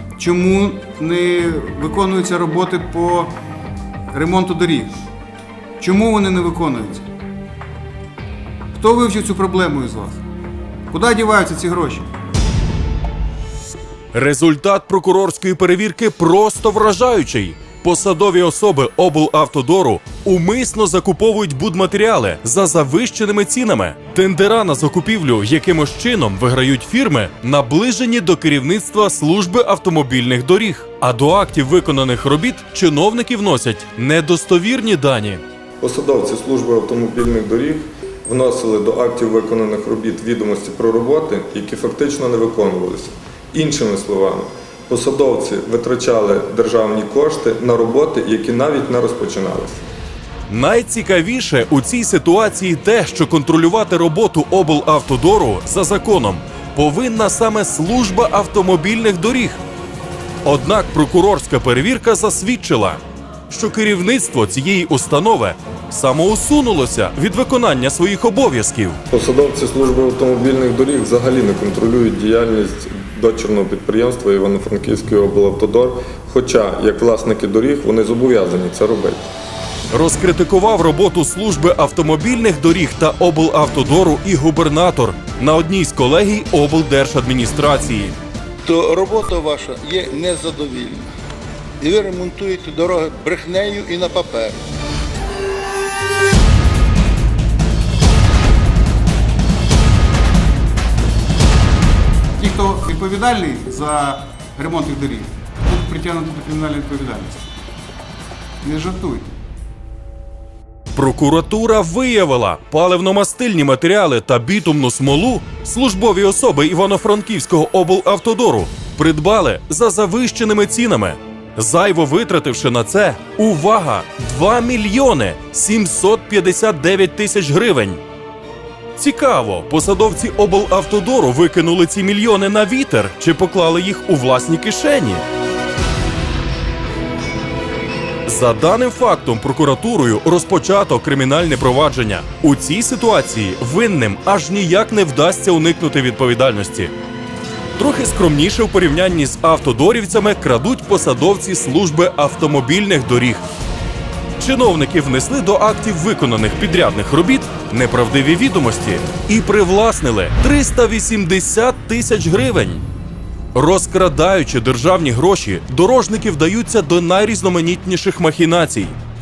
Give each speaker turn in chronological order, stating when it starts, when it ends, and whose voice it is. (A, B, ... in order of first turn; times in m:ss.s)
0:00.2-0:03.4 A
0:04.1-0:05.0 A
0:05.8-0:07.0 A
0:08.7-0:10.2 A
0:10.9-0:12.1 A
0:14.1-0:35.4 B
0:35.8-0:49.8 C
0:50.5-0:59.6 B
1:00.4-1:09.0 B
1:09.1-1:19.3 C
1:19.9-1:28.2 B
1:28.6-1:31.1 D
1:31.8-1:34.6 D
1:42.4-1:47.4 A
1:48.6-1:49.3 A
1:50.9-2:08.0 B
2:09.0-2:15.2 B
2:18.2-2:26.9 B
2:27.8-2:33.4 B
2:34.4-2:42.8 B
2:43.5-2:49.0 B